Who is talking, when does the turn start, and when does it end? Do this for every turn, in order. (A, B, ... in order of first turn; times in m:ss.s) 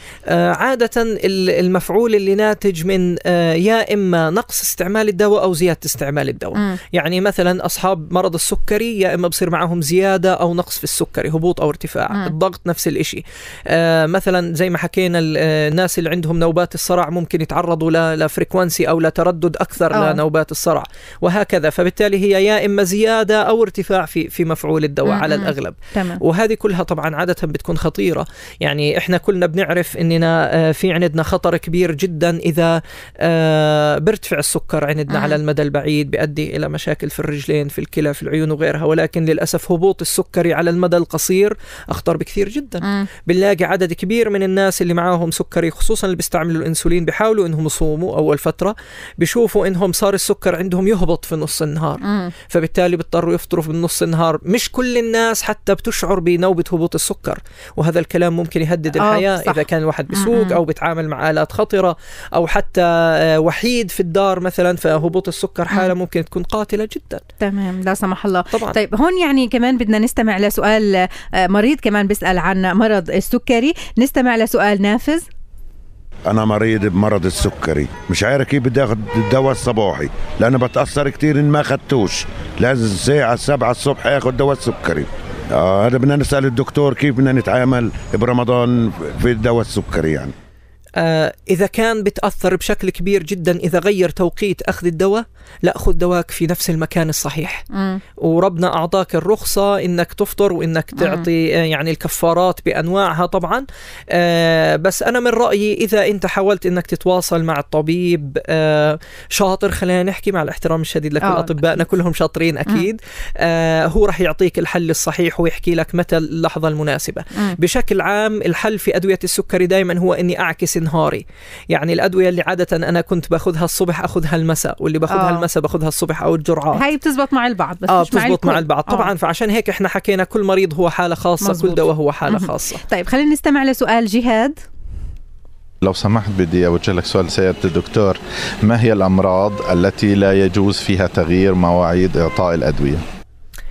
0:00.3-1:07.2 A
0:19.9-0:20.2 B
0:25.1-0:26.2 B
0:35.1-0:35.4 B
0:42.8-0:43.1 B
0:52.0-0:52.3 B
0:59.0-0:59.6 B
1:00.2-1:00.6 B
1:07.4-1:15.2 B
1:16.3-1:30.3 C
1:31.0-1:37.6 A
1:37.7-1:38.0 B
1:38.2-2:06.8 A
1:41.0-1:41.3 B
1:51.2-1:51.8 B
2:05.1-2:05.5 B
2:06.7-2:09.1 B
2:07.9-2:12.8 A
2:11.4-2:14.6 B
2:15.8-2:23.0 D